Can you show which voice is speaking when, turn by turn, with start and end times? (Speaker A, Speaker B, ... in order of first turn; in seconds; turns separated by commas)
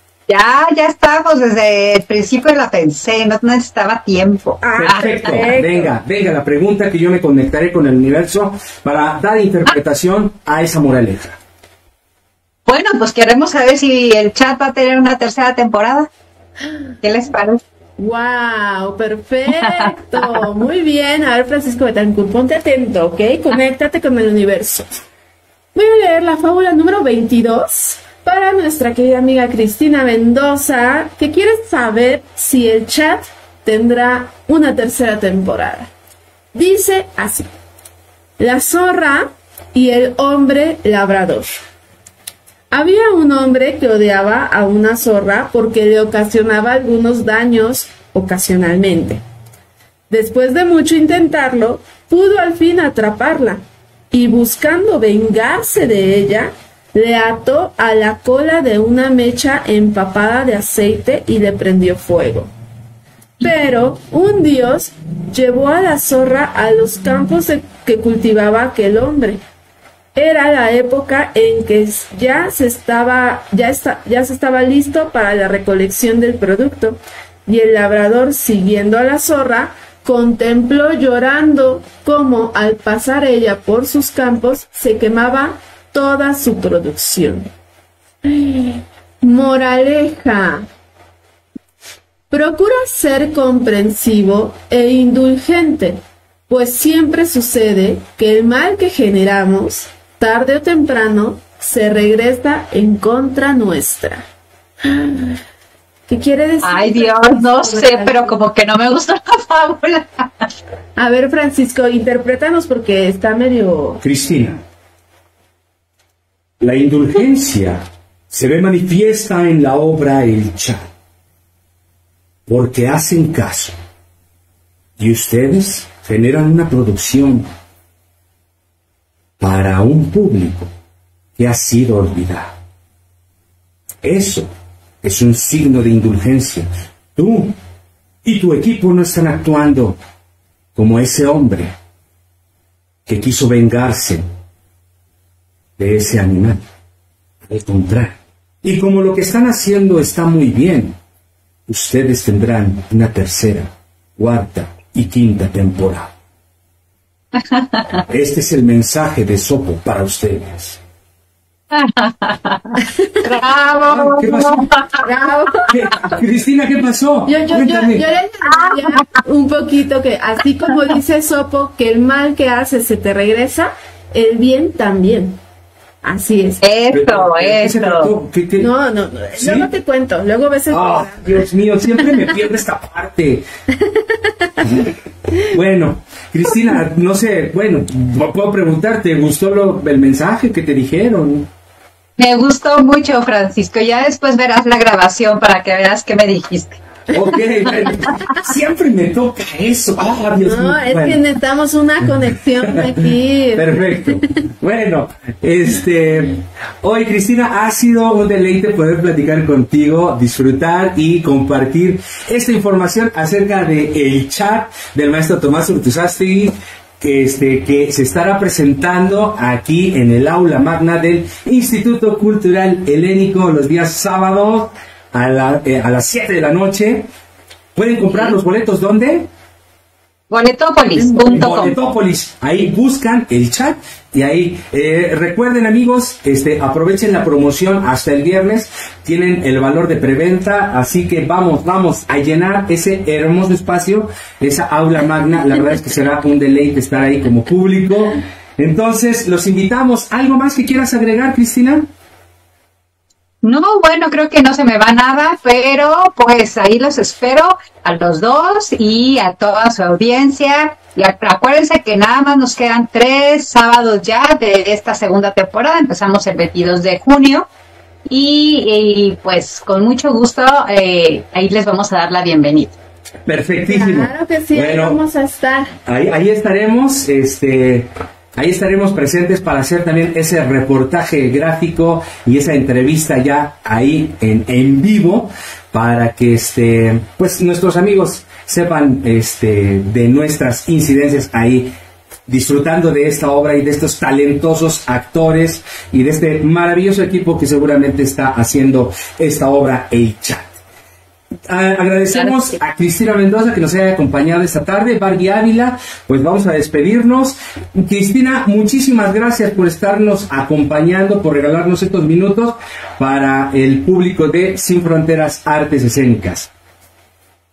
Speaker A: 0.3-5.4, Speaker B: 4.6-5.9, Speaker C: 4.8-11.4, Speaker A: 12.7-16.1, Speaker A: 17.0-17.6, Speaker B: 18.0-25.0, Speaker A: 19.6-20.2, Speaker B: 25.8-35.9, Speaker B: 36.5-37.5, Speaker B: 38.4-41.6, Speaker B: 42.7-49.2, Speaker B: 50.1-62.5, Speaker B: 63.4-69.4, Speaker B: 70.2-87.5, Speaker B: 88.2-90.7, Speaker B: 92.3-104.2, Speaker B: 104.8-105.4, Speaker B: 106.1-108.4, Speaker A: 106.6-110.5, Speaker B: 111.0-114.0, Speaker C: 114.0-114.6, Speaker C: 116.6-120.9, Speaker C: 122.5-123.7, Speaker C: 125.0-127.5, Speaker C: 129.4-130.7, Speaker C: 131.4-132.5, Speaker C: 134.0-134.5, Speaker C: 135.0-137.6, Speaker C: 138.2-140.0, Speaker C: 140.8-141.7, Speaker C: 143.1-144.2, Speaker C: 145.8-146.6, Speaker C: 147.5-151.0, Speaker C: 151.7-156.1, Speaker A: 157.4-157.8, Speaker C: 158.1-160.8, Speaker A: 161.7-165.0, Speaker C: 163.9-164.7, Speaker B: 165.0-165.7, Speaker C: 165.7-168.0, Speaker B: 167.3-175.4, Speaker A: 168.4-169.1, Speaker B: 176.0-176.6, Speaker A: 176.6-178.1, Speaker C: 176.9-178.7, Speaker B: 178.6-181.5, Speaker C: 179.4-179.7, Speaker C: 180.7-183.4, Speaker B: 183.8-184.6, Speaker C: 185.4-191.5, Speaker A: 192.2-196.8, Speaker C: 197.1-201.2, Speaker B: 200.4-204.2, Speaker C: 202.1-227.1, Speaker C: 227.8-229.3, Speaker A: 228.1-228.4, Speaker A: 230.3-231.8, Speaker B: 231.0-231.7, Speaker C: 231.3-251.9, Speaker A: 253.4-267.5, Speaker A: 268.1-272.7, Speaker C: 273.3-275.0, Speaker B: 273.7-275.7, Speaker C: 275.9-291.7, Speaker C: 292.3-300.6, Speaker C: 301.5-316.5